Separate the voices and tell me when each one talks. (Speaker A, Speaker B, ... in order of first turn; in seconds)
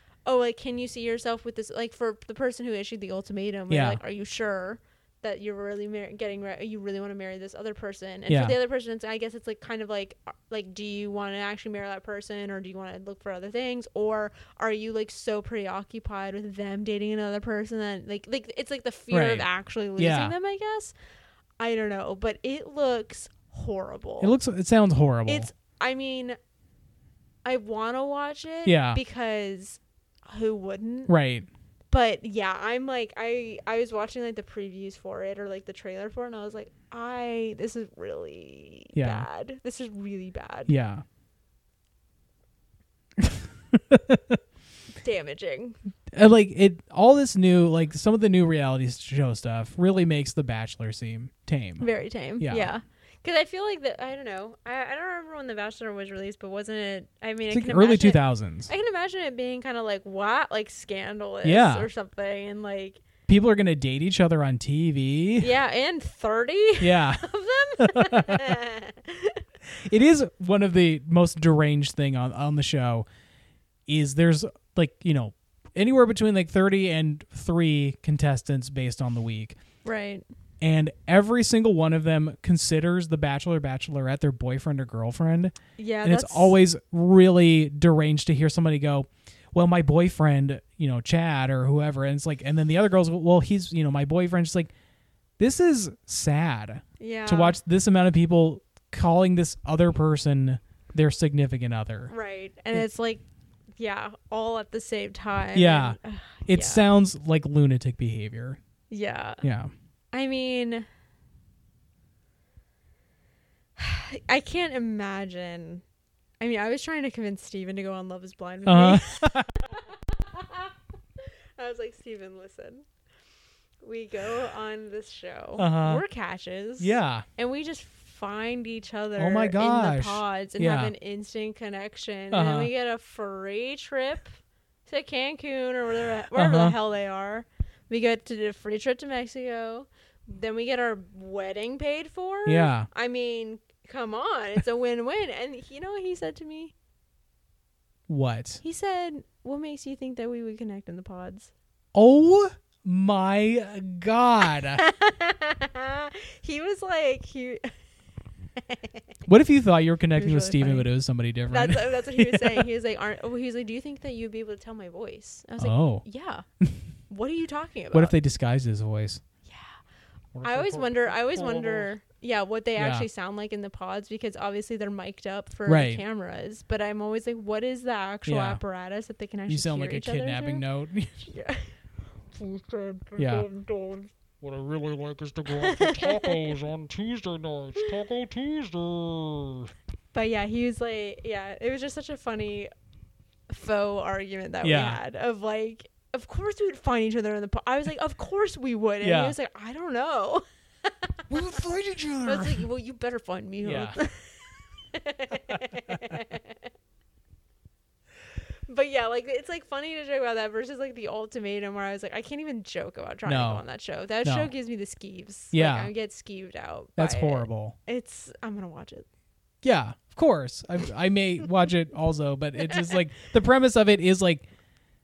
Speaker A: 0.3-20.9, 21.6-24.3, 25.3-26.4, 27.4-31.1, 31.9-40.7, 45.0-45.8, 51.8-63.0, 65.4-69.4, 79.8-80.2, 85.8-86.5, 97.0-97.6, 102.1-103.2, 103.8-106.9, 108.9-109.4, 110.1-110.9, 113.8-115.8, 116.4-122.8, 123.8-134.3, 134.9-146.7, 148.6-151.5, 154.7-157.7, 158.6-159.0, 160.2-160.9, 161.5-166.4, 167.1-168.1, 169.5-169.8, 170.4-180.7, 181.2-181.7, 185.6-186.5, 190.1-192.7, 193.5-201.2, 202.2-206.6, 208.7-219.1, 222.6-222.9
Speaker B: 3.7-4.0, 8.3-8.6, 19.1-20.4, 24.2-25.5, 28.7-29.0, 31.1-31.5, 39.0-39.3, 40.7-41.0, 43.2-44.4, 46.1-51.9, 52.4-52.7, 57.5-58.7, 61.4-61.9, 63.3-65.5, 66.8-67.2, 67.8-68.6, 69.7-73.1, 73.9-79.6, 80.6-94.7, 95.4-102.1, 105.5-108.6, 109.4-109.7, 118.7-119.5, 125.6-126.0, 126.8-127.3, 129.2-130.9, 132.3-132.7, 136.3-136.8, 142.5-142.9, 148.1-148.6, 151.9-154.8, 159.3-162.7, 165.6-166.0, 167.9-169.2, 172.8-173.1, 175.7-176.0, 178.2-178.6, 179.5-181.3, 183.2-183.5, 194.6-195.0, 199.0-199.3, 201.3-202.7, 203.6-204.0, 205.5-206.2, 213.2-213.7, 214.2-214.5, 215.5-215.9, 217.0-217.8, 219.6-224.5
Speaker C: 170.3-171.9, 182.3-189.7